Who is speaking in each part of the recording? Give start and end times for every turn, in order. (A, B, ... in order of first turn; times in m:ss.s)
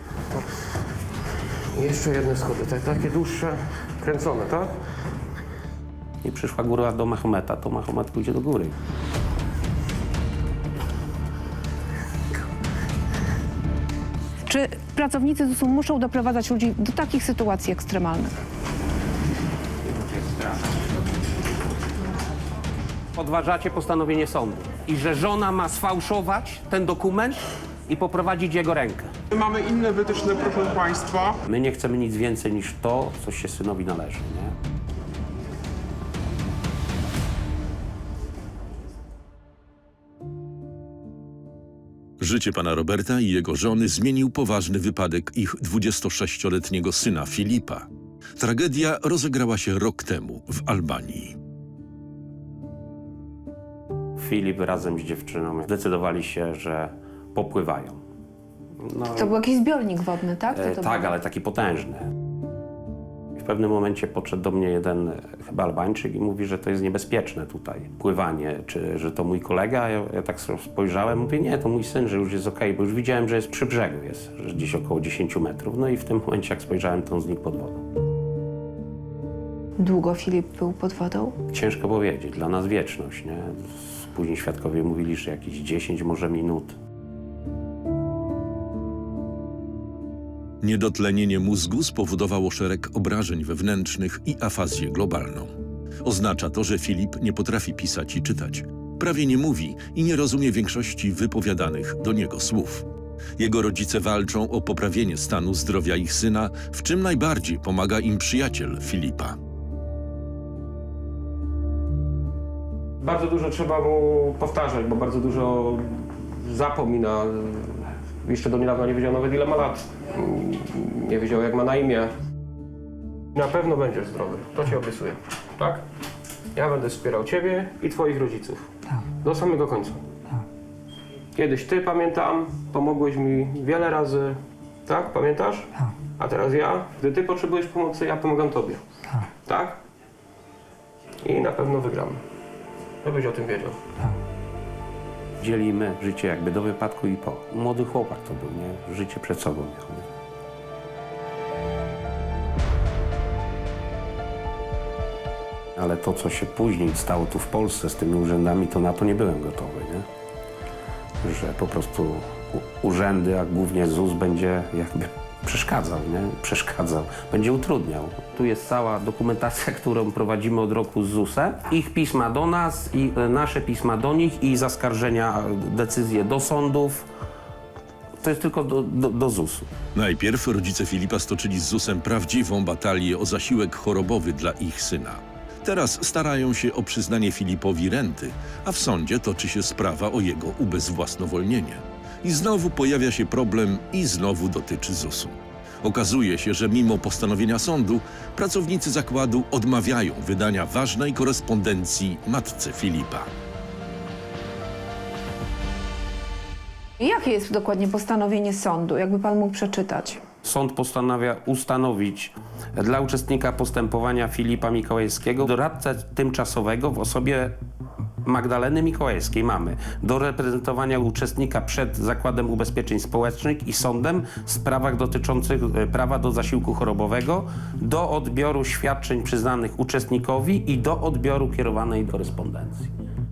0:01.7-0:04.7 A
0:06.2-0:08.7 B
0:14.5-0:18.3 C
0:19.9-0:20.5 B
0:23.1-0:29.1 B
0:29.4-0:31.3 D
0:31.3-0:34.5 B
0:42.2-0:47.8 E
0:48.4-0:51.4 E
0:54.2-0:58.0 B
0:58.8-0:59.4 B
0:59.1-1:01.1 C
1:00.5-1:02.1 B
1:03.4-1:17.8 B
1:19.8-1:21.3 C
1:21.5-1:26.8 B
1:30.6-1:35.5 E
1:36.0-1:42.9 E
1:43.4-1:49.4 E
1:53.0-2:02.1 A
2:03.3-2:05.8 A
2:06.5-2:08.7 A
2:09.2-2:10.0 A
2:11.4-2:18.8 A
2:19.4-2:19.8 A
2:21.2-2:22.2 A
2:23.0-2:23.8 A
2:25.4-2:30.0 B
2:35.8-2:40.0 B
2:41.2-2:57.1 B
2:58.2-2:59.7 B
2:59.9-3:23.3 E
3:27.0-3:30.2 C
3:30.4-3:37.5 B
3:38.2-3:52.9 B